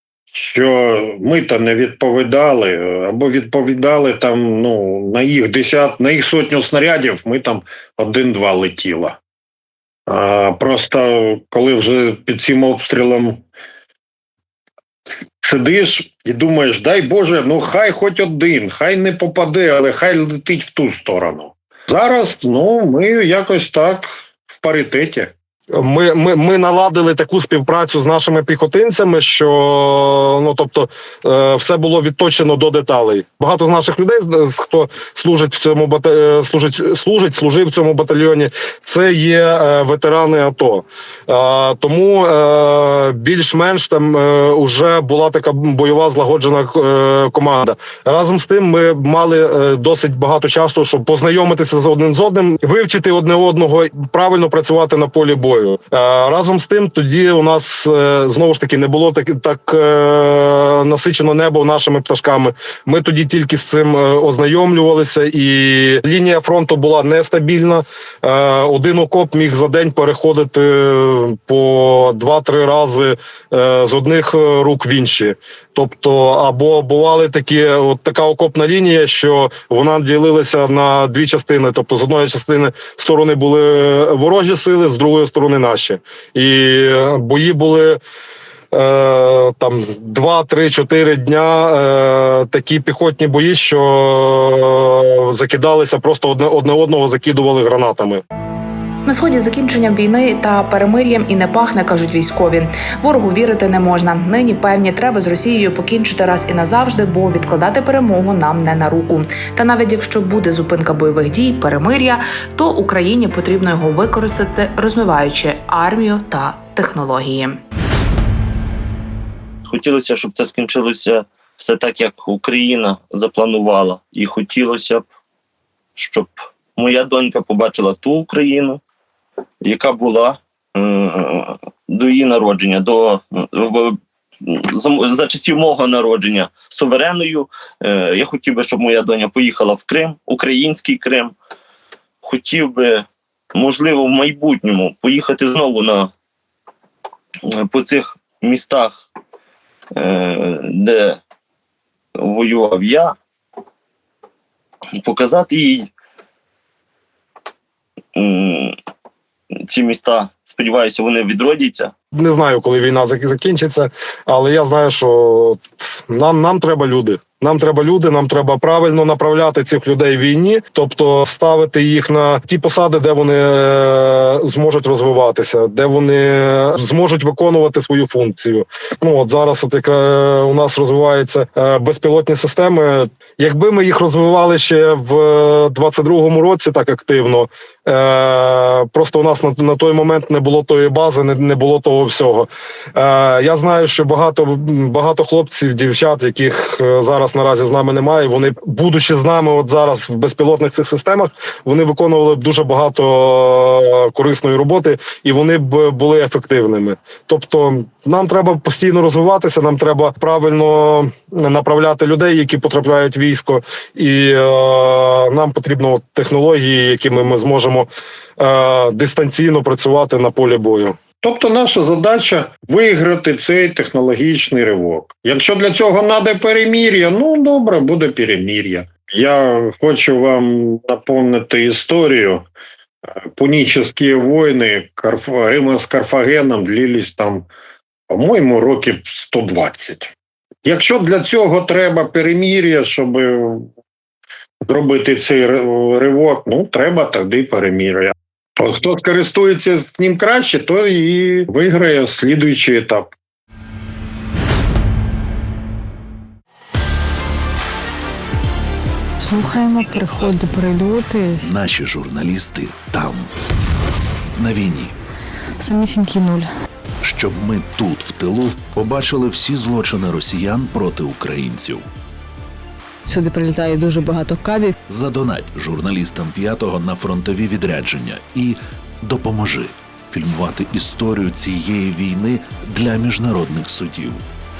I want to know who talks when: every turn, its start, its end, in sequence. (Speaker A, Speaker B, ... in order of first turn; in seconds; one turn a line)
Speaker A: 0.3-9.2
Speaker A: 10.1-13.4
Speaker A: 15.4-25.3
Speaker B: 25.7-88.0
Speaker B: 88.7-98.2
Speaker C: 99.0-117.6
Speaker D: 119.7-125.0
Speaker D: 126.0-128.8
Speaker D: 129.6-141.3
Speaker D: 142.2-146.1
Speaker D: 147.4-149.0
Speaker D: 149.9-151.2
Speaker D: 152.2-153.2
Speaker D: 155.0-155.9
Speaker D: 158.1-158.8
Speaker D: 159.6-161.9
Speaker B: 162.1-221.0
Speaker A: 221.2-232.4
Speaker A: 233.2-237.5
Speaker A: 238.1-240.1
Speaker A: 240.6-243.7
Speaker A: 244.7-253.1
Speaker E: 259.2-261.4
Speaker F: 261.4-263.3
Speaker F: 264.4-264.9
Speaker E: 265.6-266.5
Speaker F: 267.0-271.8
Speaker E: 273.0-274.8
Speaker F: 274.9-284.2